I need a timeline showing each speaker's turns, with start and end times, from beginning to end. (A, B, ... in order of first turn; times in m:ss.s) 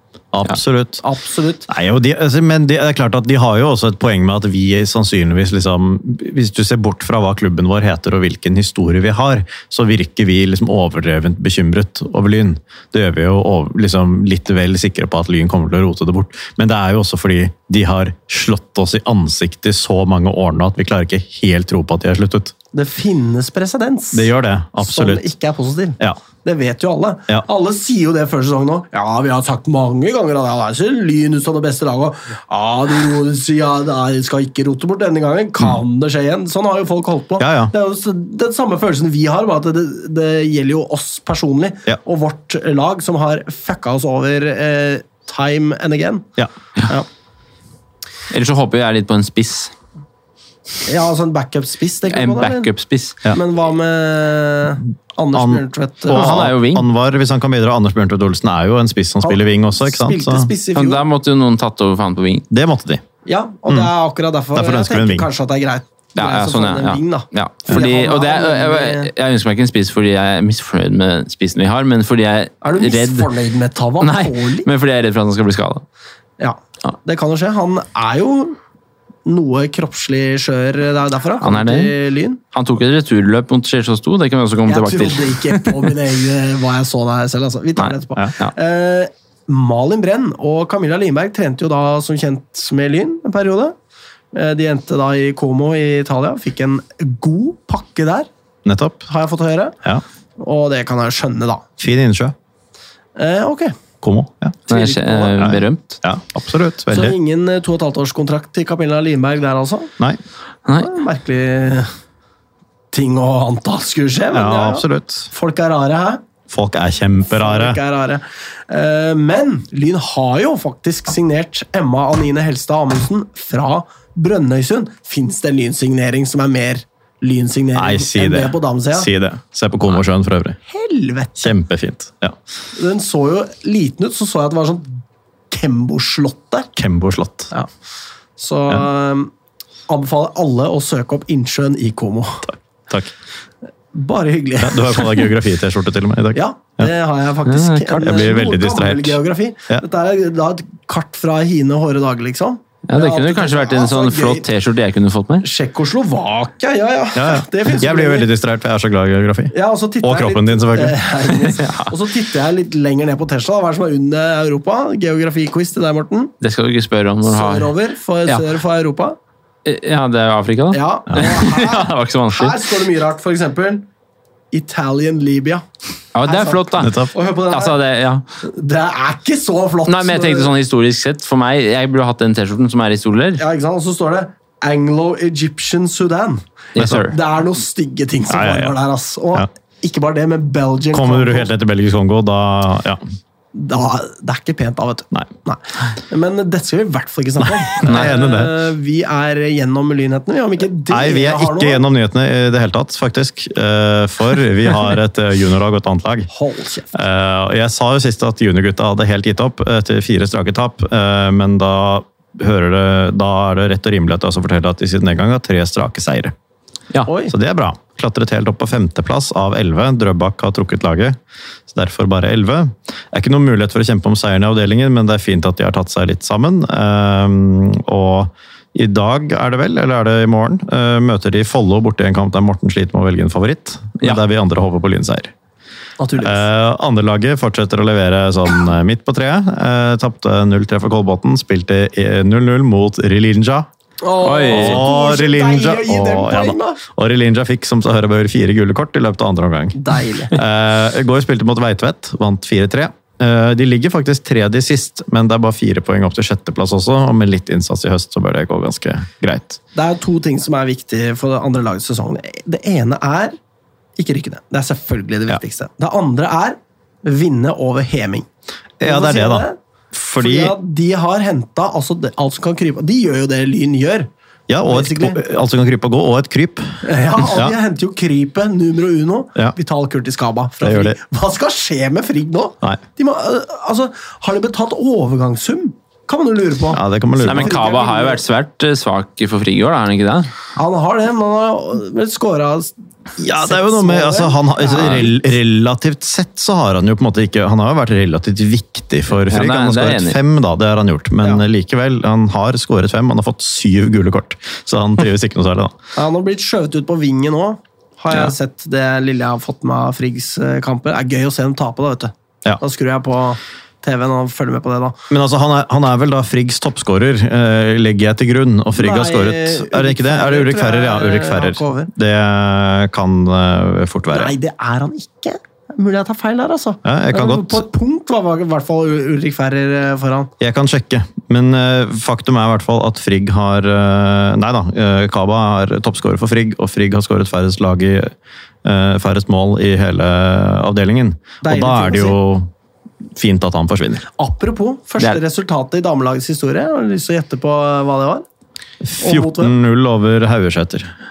0:00.3-0:01.0 A
0:01.0-0:01.7 B
0:01.7-0:22.5 A
0:22.7-0:46.3 B
0:24.1-0:25.2 A
0:37.4-0:37.7 A
0:48.3-0:49.7 C
0:50.8-0:52.7 B
0:52.1-0:53.2 C
0:53.3-0:56.4 B
0:55.3-1:00.5 A
0:56.1-0:56.9 C
0:59.2-1:01.0 B
1:00.7-1:02.4 C
1:02.5-1:03.0 A
1:03.2-1:09.1 B
1:04.5-1:05.3 A
1:06.2-1:13.3 C
1:12.6-1:14.7 B
1:14.0-1:15.8 C
1:16.4-1:18.6 B
1:19.2-1:22.4 B
1:21.4-1:21.9 C
1:22.5-1:25.9 C
1:24.7-1:33.7 B
1:27.8-1:28.5 C
1:34.3-1:38.3 B
1:38.6-1:39.0 A
1:39.1-1:39.8 B
1:40.4-1:41.6 B
1:41.8-1:42.3 A
1:43.2-1:43.8 B
1:44.0-1:44.6 A
1:44.7-1:45.6 B
1:44.7-1:46.0 C
1:45.4-1:47.2 A
1:46.9-1:49.9 B
1:50.8-1:51.9 B
1:52.9-1:56.2 B
1:54.3-1:55.3 A
1:56.5-1:57.8 A
1:57.2-2:09.1 B
2:07.7-2:10.6 A
2:10.7-2:11.5 B
2:11.4-2:12.4 A
2:12.7-2:16.7 B
2:16.8-2:17.5 A
2:18.4-2:19.3 B
2:19.9-2:22.5 B
2:22.5-2:23.1 A
2:23.9-2:25.3 B
2:24.6-2:26.9 A
2:26.3-2:34.5 B
2:27.4-2:28.2 C
2:27.9-2:29.8 A
2:32.9-2:35.4 C
2:35.4-2:38.3 B
2:37.1-2:41.0 A
2:39.5-2:46.3 B
2:41.5-2:41.9 C
2:46.4-2:47.7 C
2:47.2-2:49.2 B
2:49.6-2:52.6 C
2:50.7-2:53.8 B
2:54.5-2:55.6 B
2:56.1-2:57.0 C
2:56.2-2:57.8 B
2:56.8-2:57.1 A
2:57.5-2:58.2 C
2:58.4-3:00.5 B
2:59.9-3:03.4 C
3:03.4-3:06.4 B
3:06.7-3:07.1 C
3:06.8-3:07.1 A
3:07.0-3:11.5 B
3:08.3-3:08.7 A
3:10.9-3:13.0 A
3:13.5-3:21.8 B
3:17.4-3:18.5 A
3:17.8-3:18.1 C
3:20.9-3:26.3 A
3:26.3-3:26.9 B
3:26.9-3:36.3 A
3:37.0-3:37.3 B
3:37.3-3:41.2 A
3:41.7-3:55.3 A
3:56.0-3:56.4 B
3:56.2-4:03.7 A
4:04.0-4:06.8 B
4:04.2-4:04.9 C
4:04.5-4:19.6 A
4:09.8-4:10.3 B
4:19.7-4:23.4 B
4:24.0-4:28.3 B
4:28.8-4:30.5 A
4:28.8-4:29.6 B
4:30.2-4:34.1 B
4:34.5-4:37.5 A
4:34.7-4:35.2 B
4:36.8-4:48.2 B
4:40.6-4:41.0 A
4:46.7-4:47.5 A
4:47.2-4:50.3 C
4:50.6-4:52.7 B
4:53.2-5:05.7 A
4:53.3-4:55.2 B
4:59.3-5:00.2 C
5:06.0-5:15.0 B
5:15.1-5:24.3 A
5:18.8-5:21.9 B
5:24.1-5:30.3 B
5:26.8-5:27.6 A
5:30.4-5:38.1 A
5:38.6-5:42.5 A
5:41.4-5:42.2 B
5:43.2-5:44.0 A
5:44.1-5:48.2 B
5:48.8-5:50.9 A
5:49.0-5:49.5 B